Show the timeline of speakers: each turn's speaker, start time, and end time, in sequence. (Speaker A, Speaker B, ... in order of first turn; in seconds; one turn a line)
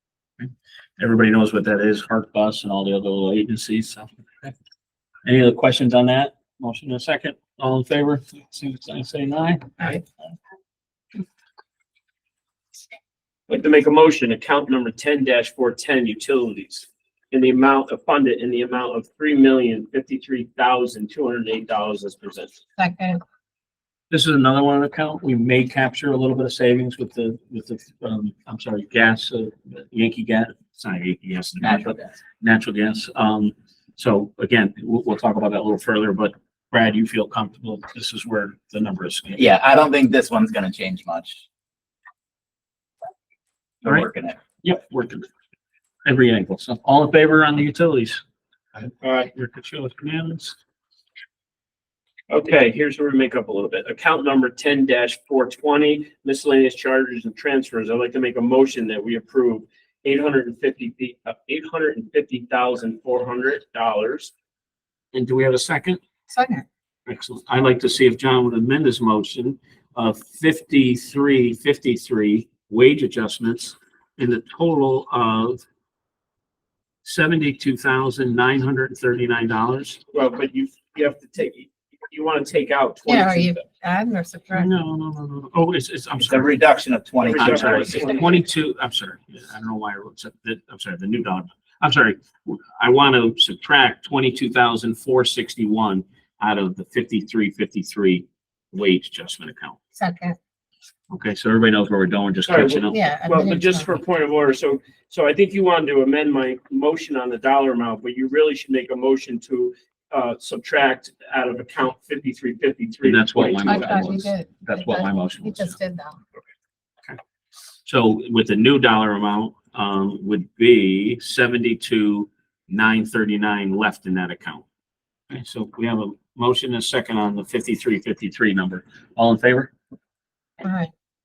Speaker A: 1.0-4.5
Speaker A: 5.2-9.9
Speaker B: 13.5-22.6
Speaker C: 22.8-23.2
Speaker A: 24.1-39.5
Speaker D: 31.6-32.1
Speaker D: 39.4-41.4
Speaker D: 43.8-44.4
Speaker A: 44.6-45.3
Speaker A: 46.0-48.2
Speaker B: 49.0-49.3
Speaker A: 49.3-50.5
Speaker B: 52.3-64.3
Speaker A: 65.1-66.0
Speaker C: 66.3-66.6
Speaker A: 67.1-75.6
Speaker A: 77.0-80.0
Speaker B: 80.1-83.6
Speaker C: 83.0-84.8
Speaker A: 84.5-86.6
Speaker D: 86.2-88.1
Speaker B: 87.2-88.4
Speaker A: 87.3-99.8
Speaker C: 100.0-100.4
Speaker A: 101.1-103.0
Speaker B: 102.4-114.1
Speaker C: 102.9-103.9
Speaker A: 113.0-115.8
Speaker C: 113.6-116.2
Speaker A: 117.8-124.6
Speaker A: 125.3-129.7
Speaker C: 130.6-130.9